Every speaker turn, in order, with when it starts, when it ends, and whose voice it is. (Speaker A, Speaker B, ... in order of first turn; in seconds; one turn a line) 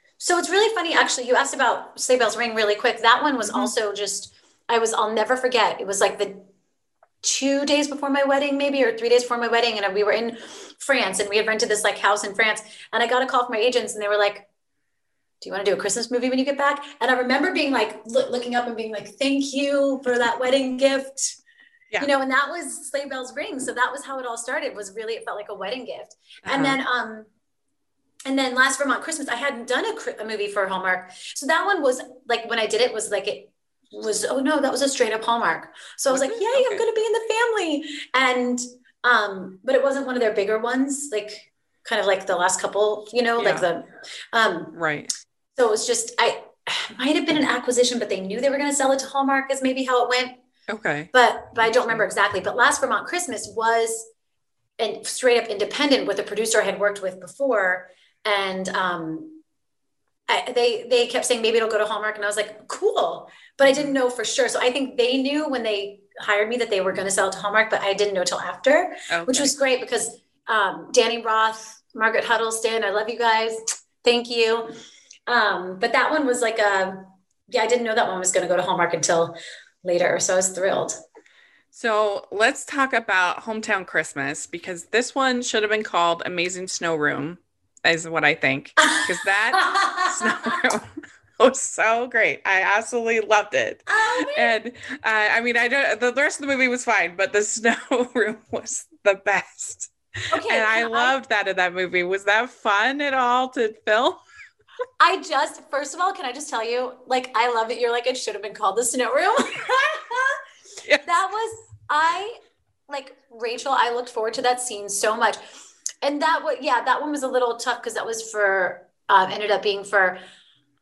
Speaker A: 0.2-6.5
Speaker B: 3.5-3.7
Speaker A: 7.2-14.5
Speaker A: 15.4-21.4
Speaker A: 22.0-27.3
Speaker B: 26.5-26.8
Speaker A: 28.3-44.8
Speaker B: 36.1-36.9
Speaker B: 43.4-43.7
Speaker B: 44.7-45.1
Speaker A: 45.6-50.4
Speaker B: 50.7-51.1
Speaker A: 51.1-54.1
Speaker B: 51.6-52.0
Speaker A: 54.8-59.4
Speaker A: 60.3-74.7
Speaker B: 63.6-63.9
Speaker B: 69.1-69.5
Speaker A: 75.3-81.0
Speaker B: 81.7-99.9
Speaker A: 88.8-90.6
Speaker A: 93.9-94.5
Speaker A: 100.3-101.2
Speaker B: 100.5-104.2
Speaker A: 105.0-110.4
Speaker A: 111.0-115.4
Speaker A: 116.0-120.2